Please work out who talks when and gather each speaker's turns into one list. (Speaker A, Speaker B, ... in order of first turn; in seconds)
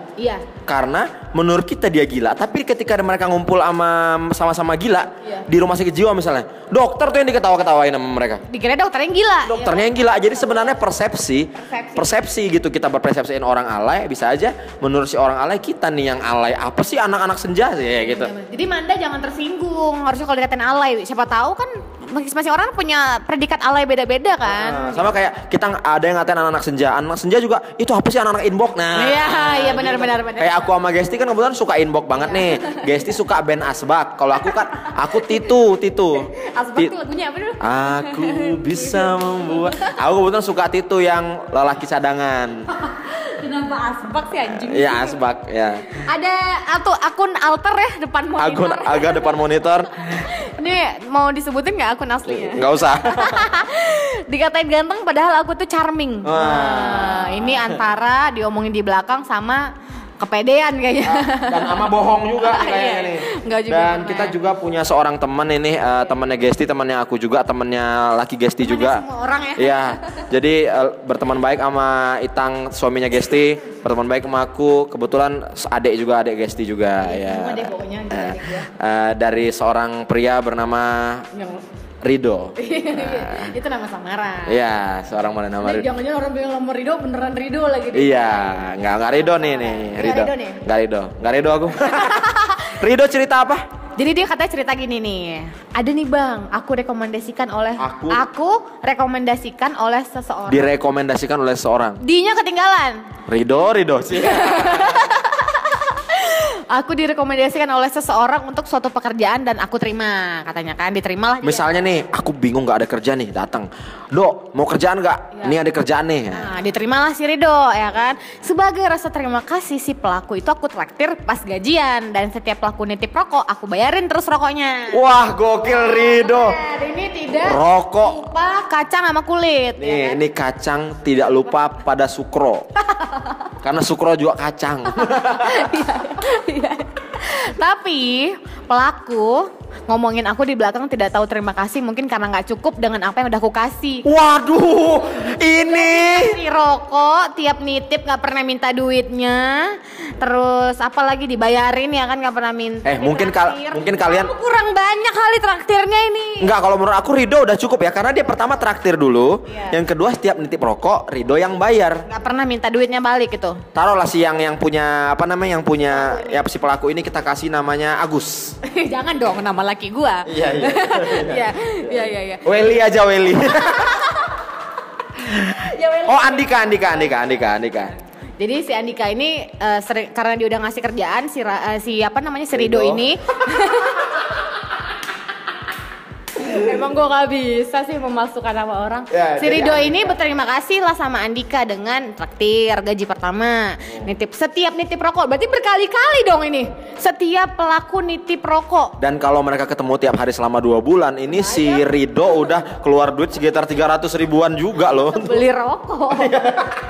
Speaker A: 0.2-0.5, 8.5-10.8, 11.6-12.2, 18.0-25.1, 28.9-30.7, 32.2-32.9, 34.5-35.4, 36.1-40.0, 42.7-45.2, 45.9-49.4, 50.1-61.8, 62.4-64.3, 68.6-70.2, 77.0-78.7, 81.3-81.6, 82.6-84.6, 85.6-90.6, 91.8-92.7, 94.0-100.7, 102.0-103.1, 104.2-111.7, 116.3-125.0, 125.6-130.2, 132.9-133.3, 135.0-144.1, 145.5-156.5, 159.5-159.8, 162.1-163.6, 165.9-166.4, 168.6-172.5, 173.8-174.0, 175.5-177.2, 178.4-184.3, 186.3-199.0, 201.3-201.8, 205.1-206.5
Speaker B: 0.7-8.4, 9.4-18.3, 24.5-36.9, 37.6-42.7, 44.5-46.0, 48.4-50.2, 52.3-53.5, 56.2-57.8, 61.0-69.0, 69.6-81.3, 82.0-83.5, 84.5-85.9, 87.9-93.6, 97.8-98.2, 100.5-102.0, 103.3-105.1, 111.4-116.5, 124.9-126.6, 127.3-128.3, 129.8-132.7, 133.6-135.7, 144.0-146.4, 152.8-154.3, 156.4-162.0, 163.7-168.6, 170.3-174.1, 175.2-177.9, 182.5-183.0, 189.1-190.2, 199.0-205.4, 206.1-206.8